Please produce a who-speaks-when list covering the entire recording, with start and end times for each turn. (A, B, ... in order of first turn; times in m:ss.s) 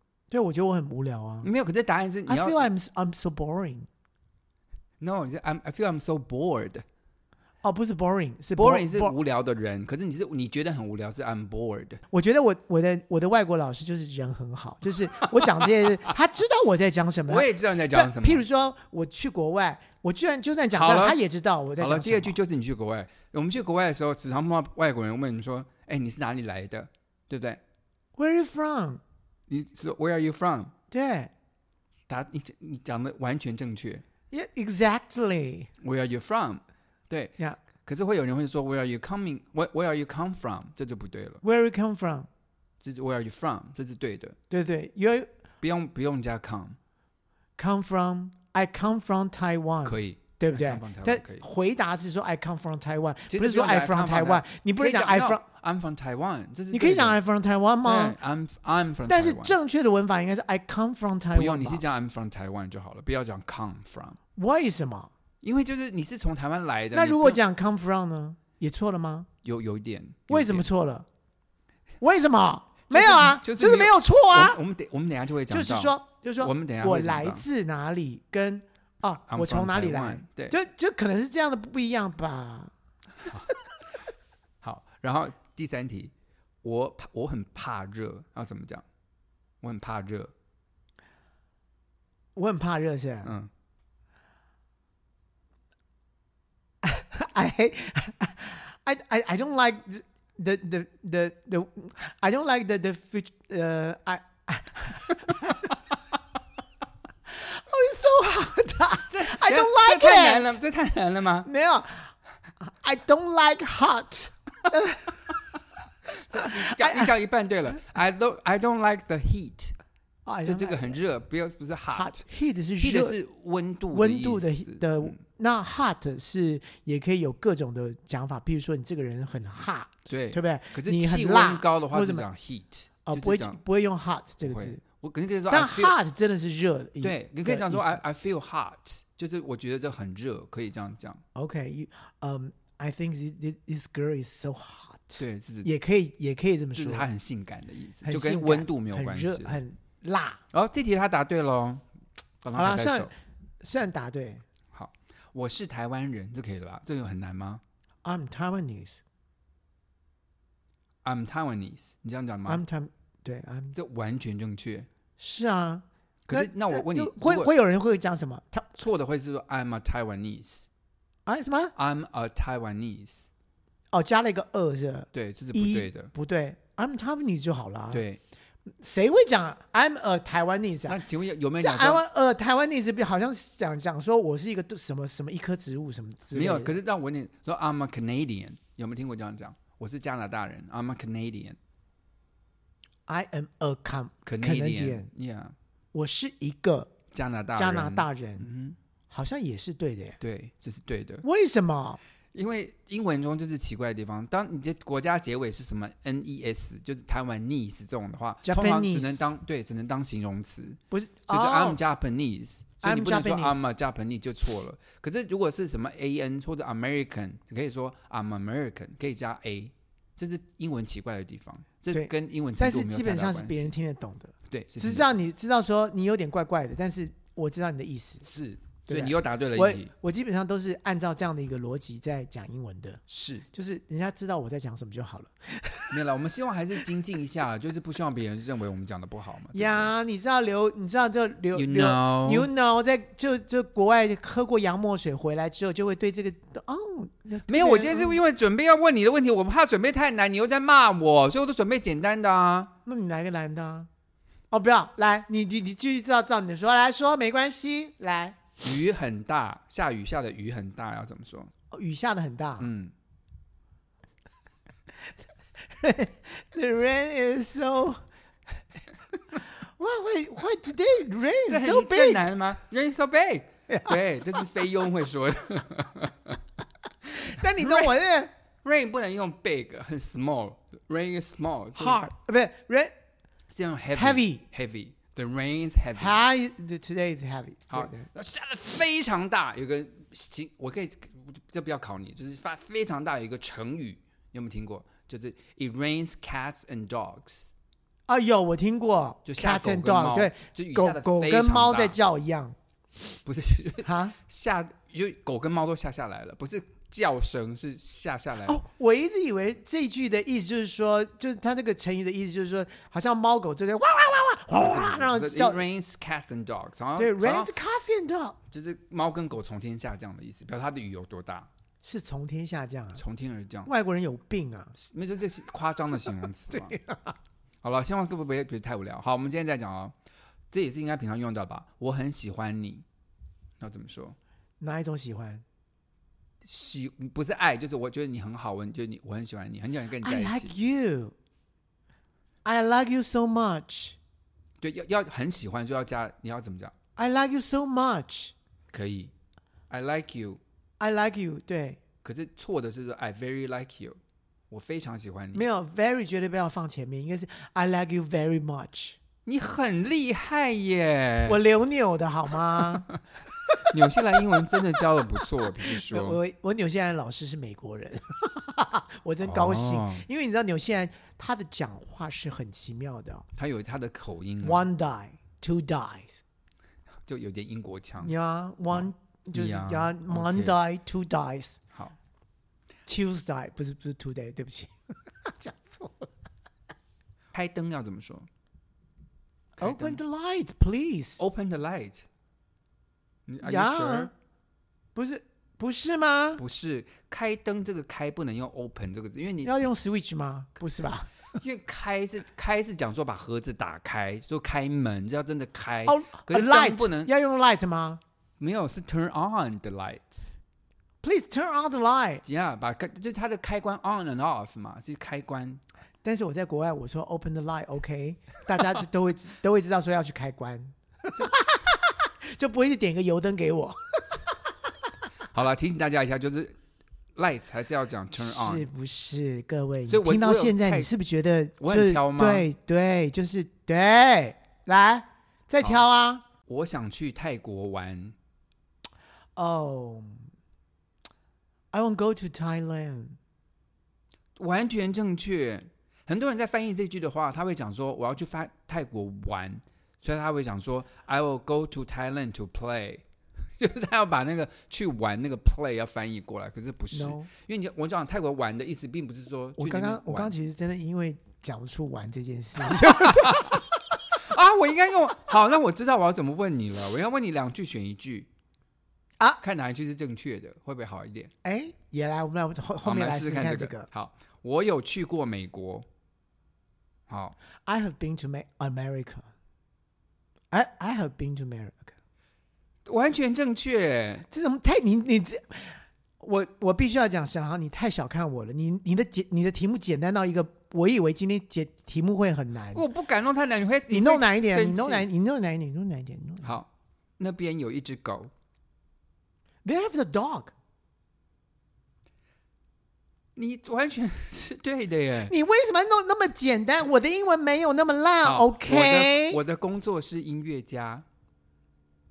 0:00.3-0:01.5 A
0:01.4-0:02.7 B
0:02.3-0:03.9 A
0:05.0-0:06.8 B
0:07.6-0:09.2 A
0:08.6-0:12.0 B
0:12.1-0:22.4 A
0:17.3-0:18.4 B
0:20.7-0:21.2 B
0:21.8-0:27.6 B
0:28.2-0:29.0 A
0:29.5-0:30.7 B
0:30.9-0:31.3 A
0:32.1-0:34.0 B
0:34.3-0:35.7 A
0:35.8-0:41.4 B
0:41.4-0:42.3 A
0:42.8-0:44.4 B
0:44.5-0:45.3 A
0:45.6-0:46.8 B
0:47.6-0:55.4 A
0:49.8-0:51.5 B
0:53.3-0:57.2 B
0:56.7-0:58.2 A
0:57.8-0:59.6 B
0:59.1-1:01.8 A
1:01.3-1:04.2 B
1:04.4-1:05.1 A
1:05.4-1:07.4 B
1:06.9-1:09.3 A
1:09.4-1:10.7 B
1:10.3-1:11.1 A
1:12.0-1:14.6 A
1:12.9-1:17.4 B
1:15.5-1:22.7 A
1:19.3-1:20.6 B
1:23.2-1:23.5 B
1:24.6-1:26.1 B
1:26.6-1:28.9 B
1:29.6-1:30.3 B
1:32.4-1:33.3 A
1:33.2-1:33.5 B
1:36.8-1:45.7 A
1:47.3-1:50.6 A
1:49.1-1:51.5 B
1:51.5-1:55.4 A
1:56.2-1:59.8 B
1:56.4-1:57.1 A
2:00.3-2:01.0 A
2:00.4-2:02.2 B
2:01.9-2:03.2 A
2:02.8-2:05.1 B
2:03.9-2:12.3 A
2:10.1-2:13.6 B
2:13.0-2:14.8 A
2:14.4-2:16.0 B
2:15.5-2:18.0 A
2:17.0-2:21.2 B
2:21.4-2:27.1 A
2:25.2-2:25.7 B
2:26.7-2:29.6 B
2:28.0-2:30.4 A
2:30.5-2:31.9 B
2:32.4-2:33.1 B
2:32.6-2:34.4 A
2:34.7-2:37.6 B
2:38.0-2:39.0 A
2:41.0-2:42.6 B
2:42.5-2:43.8 A
2:43.7-2:44.9 B
2:45.2-2:48.8 A
2:46.3-2:47.5 B
2:48.8-2:50.6 B
2:51.3-2:51.7 A
2:51.8-2:53.3 B
2:53.9-2:58.0 A
2:55.1-2:56.1 B
2:57.9-2:58.2 B
2:58.8-3:01.0 A
3:00.9-3:02.0 B
3:01.6-3:06.8 A
3:06.3-3:11.6 B
3:13.1-3:15.1 A
3:14.3-3:15.6 B
3:15.9-3:16.9 A
3:17.1-3:18.8 B
3:17.6-3:18.5 A
3:19.1-3:20.2 A
3:20.2-3:21.2 B
3:21.2-3:22.0 A
3:22.3-3:43.7 B
3:28.4-3:29.2 A
3:30.9-3:31.8 A
3:32.8-3:33.6 A
3:41.9-3:48.3 A
3:44.5-3:45.1 B
3:48.2-3:49.9 B
3:48.9-3:53.0 A
3:53.1-3:53.5 B
3:53.5-3:56.0 A
3:55.9-3:59.9 B
3:59.5-4:08.2 A
4:01.5-4:02.5 B
4:07.5-4:12.7 B
4:12.9-4:13.9 A
4:14.5-4:18.4 A
4:18.6-4:21.5 B
4:21.7-4:22.7 A
4:22.6-4:22.9 B
4:25.7-4:28.0 A
4:29.6-4:32.2 A
4:31.4-4:36.4 B
4:33.7-4:34.0 A
4:37.1-4:38.3 A
4:37.6-4:38.0 B
4:38.6-4:42.0 B
4:41.8-4:42.9 A
4:43.5-4:46.2 B
4:44.0-4:44.4 A
4:46.0-4:48.1 A
4:47.7-4:57.5 B
4:58.1-5:02.6 A
4:59.2-5:02.0 B
5:03.2-5:08.6 B
5:03.8-5:04.2 A
5:08.5-5:15.6 A
5:14.6-5:17.5 B
5:17.0-5:18.4 A
5:18.5-5:21.5 B
5:21.8-5:23.0 A
5:23.0-5:23.7 B
5:23.7-5:24.8 A
5:24.8-5:26.8 B
5:26.5-5:27.1 A
5:27.6-5:30.0 B
5:30.5-5:32.8 B
5:33.6-5:34.2 B
5:34.6-5:35.4 A
5:36.4-5:40.5 B
5:40.0-5:41.1 A
5:42.4-5:44.0 A
5:44.6-5:46.7 B
5:47.0-5:48.3 A
5:48.7-5:49.1 B
5:49.7-5:50.4 B
5:50.8-5:51.8 A
5:52.0-5:54.0 B
5:54.5-5:55.4 B
5:55.3-5:59.0 A
5:59.2-6:01.4 B
6:01.3-6:02.9 A
6:03.7-6:06.2 B
6:05.7-6:13.3 A
6:09.2-6:10.0 B
6:13.4-6:14.7 B
6:14.4-6:16.2 A
6:17.1-6:18.1 B
6:18.0-6:21.6 A
6:18.7-6:20.6 B
6:22.9-6:26.1 A
6:27.3-6:28.3 B
6:29.6-6:30.0 B
6:29.6-6:31.2 A
6:31.2-6:32.1 B
6:33.3-6:34.1 B
6:33.4-6:34.1 A
6:35.0-6:36.4 A
6:36.4-6:39.6 B
6:39.4-6:41.4 A
6:41.4-6:47.1 B
6:45.9-6:48.0 A
6:48.4-6:50.4 B
6:51.0-6:52.2 A
6:52.2-6:55.6 B
6:56.0-7:04.2 A
7:05.3-7:06.6 B
7:07.2-7:08.7 B
7:08.2-7:16.2 A
7:09.9-7:10.9 B
7:11.6-7:12.5 B
7:15.6-7:15.9 B
7:16.5-7:18.2 B
7:19.4-7:20.2 A
7:21.7-7:23.2 A
7:24.4-7:33.0 B
7:33.6-7:40.3 B
7:36.9-7:37.3 A
7:39.6-7:43.8 A
7:42.7-7:43.6 B
7:44.1-7:48.3 B
7:49.4-7:51.3 B
7:51.4-7:53.9 A
7:52.8-7:55.9 B
7:57.1-7:57.4 B
7:57.7-7:59.3 A
8:00.5-8:02.0 A
8:02.8-8:04.3 B
8:04.3-8:12.8 A
8:12.7-8:15.1 B
8:13.9-8:16.5 A
8:16.4-8:18.3 B
8:19.6-8:20.5 A
8:23.4-8:25.3 B
8:25.3-8:29.4 A
8:28.2-8:31.0 B